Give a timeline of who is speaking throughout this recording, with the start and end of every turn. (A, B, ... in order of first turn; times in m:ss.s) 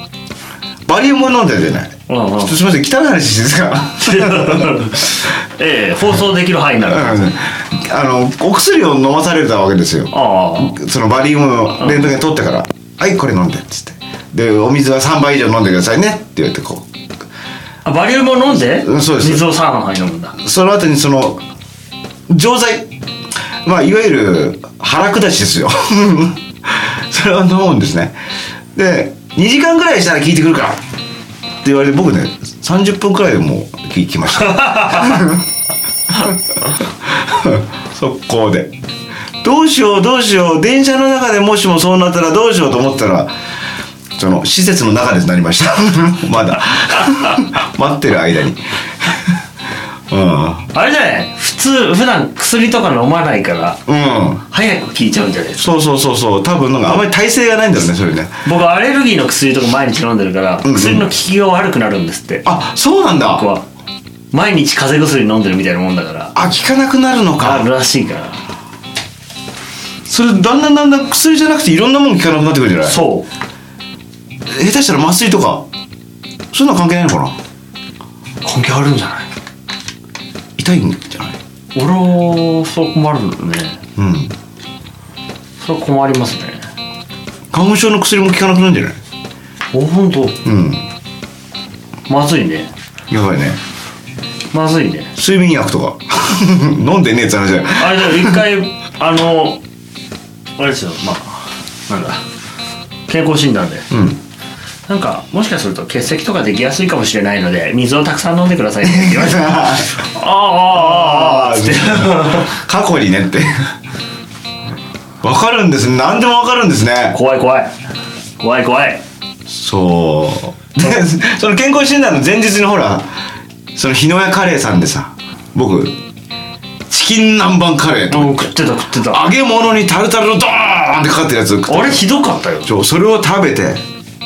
0:00.9-0:05.2 A
0:02.1-0:02.5 B
0:04.1-0:07.3 B
0:06.8-0:16.9 A
0:10.1-0:10.8 B
0:17.8-0:20.4 B
0:18.6-0:19.5 A
0:20.4-0:21.4 A
0:22.3-0:22.9 A
0:23.6-0:28.2 A
0:28.8-0:30.8 A
0:31.6-0:35.4 A
0:34.6-0:35.2 B
0:37.2-0:38.8 A
0:39.4-0:43.3 A
0:44.2-0:49.2 A
0:50.1-0:50.7 A
0:50.7-0:53.8 B
0:53.9-0:54.4 A
0:54.5-0:55.7 B
0:55.6-0:58.4 A
0:58.4-1:02.5 B
1:00.6-1:01.1 A
1:02.4-1:03.5 A
1:03.3-1:03.6 B
1:04.3-1:06.3 B
1:06.4-1:07.7 A
1:07.4-1:08.4 B
1:10.1-1:13.0 A
1:12.8-1:13.3 B
1:14.5-1:15.7 A
1:16.5-1:17.4 A
1:18.4-1:19.3 B
1:20.6-1:21.4 A
1:21.8-1:23.8 B
1:24.0-1:24.3 A
1:25.6-1:26.6 B
1:27.5-1:29.0 A
1:29.7-1:30.4 B
1:30.4-1:30.9 A
1:32.1-1:32.7 B
1:33.1-1:33.6 A
1:34.5-1:35.1 B
1:35.2-1:38.4 A
1:37.8-1:39.6 B
1:40.6-1:42.2 B
1:43.1-1:43.9 B
1:43.9-1:44.2 A
1:44.9-1:52.5 B
1:48.8-1:50.0 A
1:50.7-1:53.7 A
1:55.2-1:57.2 A
1:57.1-1:57.8 B
1:58.4-1:59.0 B
1:59.5-2:03.1 A
2:03.8-2:06.0 A
2:06.9-2:12.0 A
2:08.1-2:09.2 B
2:11.7-2:12.7 B
2:12.6-2:13.8 A